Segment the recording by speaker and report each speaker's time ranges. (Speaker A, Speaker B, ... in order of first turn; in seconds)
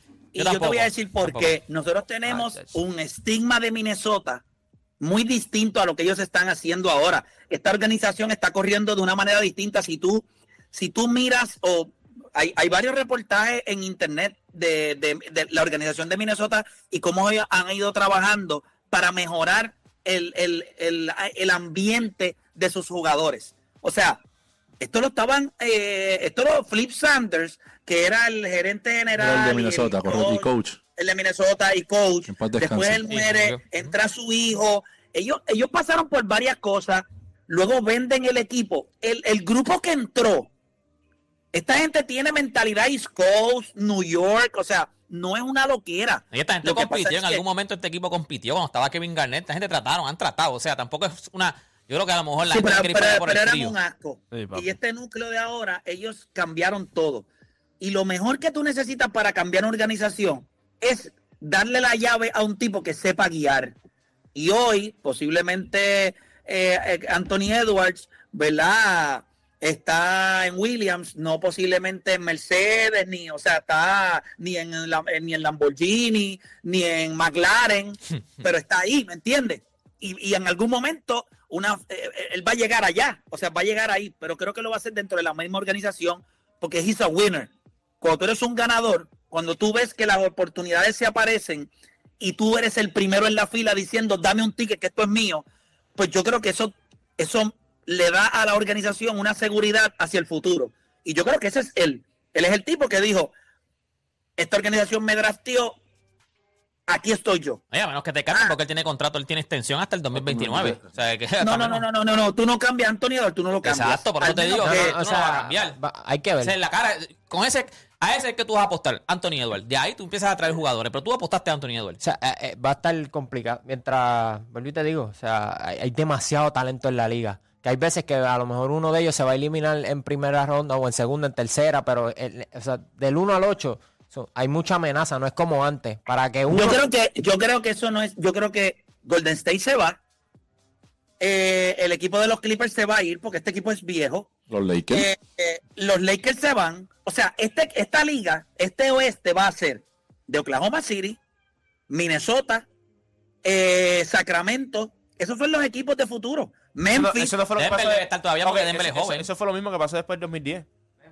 Speaker A: 0.3-4.4, 5.0-24.2, 24.8-40.5, 41.5-47.4, 52.5-57.3, 57.8-63.7, 64.3-95.4, 96.0-103.3, 104.4-105.8, 106.9-107.6, 111.4-114.9, 136.5-140.0, 141.2-144.3, 144.9-151.2, 151.9-152.7, 153.4-157.3
Speaker B: 0.4-1.5, 33.1-33.6, 46.3-53.8, 107.7-111.8, 113.6-115.8, 116.4-122.0, 157.6-159.3
Speaker C: 2.3-2.8, 54.3-54.7, 156.9-160.7
Speaker D: 29.1-30.8, 32.3-33.1, 110.2-110.8, 144.5-145.1
Speaker E: 114.6-116.6, 122.0-136.8